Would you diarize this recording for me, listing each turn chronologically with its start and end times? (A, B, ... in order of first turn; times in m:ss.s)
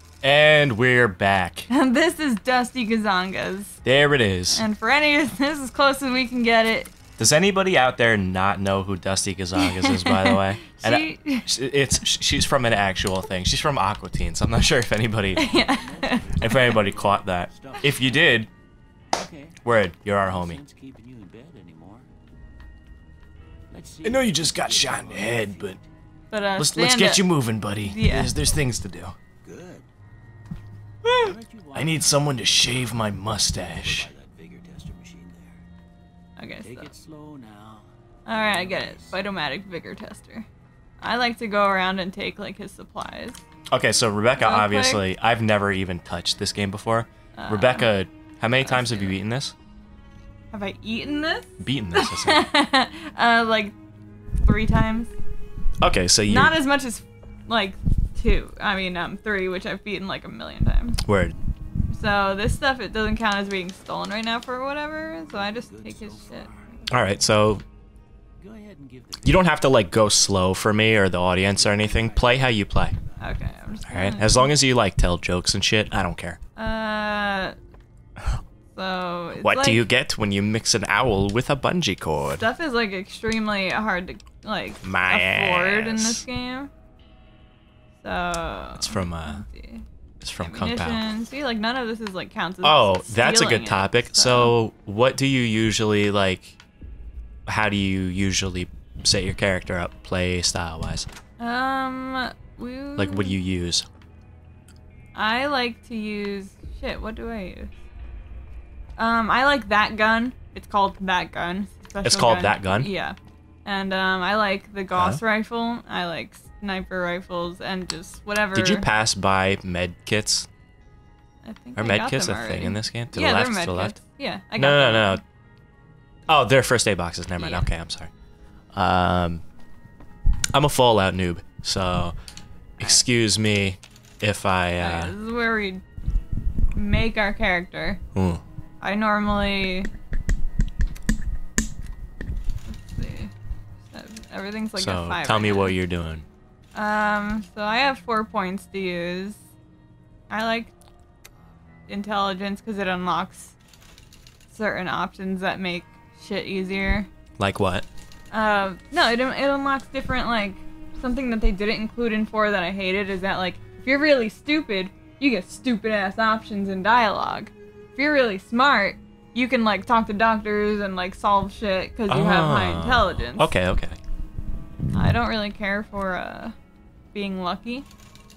0:00.2-0:01.7 A
0:01.7-0:03.8 B
0:03.8-0:04.6 A
0:04.5-0:07.0 B
0:07.2-0:15.4 A
0:09.6-0:11.5 B
0:15.4-0:16.8 B
0:15.4-0:18.2 C
0:16.4-0:18.5 A
0:19.1-0:19.6 C
0:19.6-0:20.6 A
0:20.2-0:22.1 C
0:23.7-0:25.8 C
0:24.0-0:25.8 A
0:26.3-0:27.3 B
0:26.6-0:29.2 A
0:27.8-0:28.3 B
0:29.4-0:29.9 C
0:31.0-0:34.1 A
0:31.2-0:33.0 C
0:33.5-0:35.6 C
0:36.4-0:36.9 B
0:36.6-0:39.2 C
0:38.3-0:40.5 B
0:41.0-0:43.4 B
0:43.7-0:49.5 A
0:44.4-0:45.0 B
0:47.4-0:47.9 B
0:48.6-0:49.2 B
0:50.5-0:53.8 B
0:51.6-0:52.5 A
0:54.4-0:55.1 B
0:55.8-0:56.6 A
0:56.3-1:01.0 B
1:01.0-1:01.4 A
1:01.9-1:06.5 B
1:05.2-1:06.8 C
1:06.9-1:07.6 A
1:08.4-1:09.6 C
1:09.2-1:13.0 A
1:11.5-1:13.4 C
1:13.2-1:14.5 B
1:13.8-1:16.4 A
1:16.6-1:17.6 B
1:18.7-1:19.8 B
1:19.4-1:22.5 A
1:22.3-1:26.7 B
1:24.8-1:26.2 A
1:28.0-1:29.8 B
1:28.8-1:29.4 A
1:30.2-1:31.1 A
1:30.4-1:34.6 B
1:32.6-1:36.6 A
1:37.5-1:41.1 A
1:41.4-1:43.4 B
1:43.0-1:43.9 A
1:45.1-1:47.7 B
1:49.0-1:58.9 B
1:52.0-1:52.9 A
1:54.9-1:55.2 A
1:58.5-2:00.5 A
2:01.4-2:05.2 B
2:01.8-2:04.0 A
2:04.6-2:05.2 A
2:06.3-2:08.1 A
2:07.4-2:07.7 B
2:08.7-2:09.4 A
2:10.5-2:12.2 A
2:12.8-2:15.1 A
2:14.8-2:15.8 B
2:16.7-2:18.0 B
2:18.2-2:18.4 A
2:18.8-2:19.9 B
2:22.7-2:23.3 B
2:23.9-2:25.8 B
2:24.8-2:26.3 A
2:26.7-2:29.4 B
2:30.3-2:30.7 B
2:31.9-2:33.6 B
2:34.5-2:37.1 B
2:37.4-2:37.9 A
2:38.3-2:53.5 B
2:52.1-2:54.0 A
2:54.9-2:56.6 B
2:57.1-2:57.9 B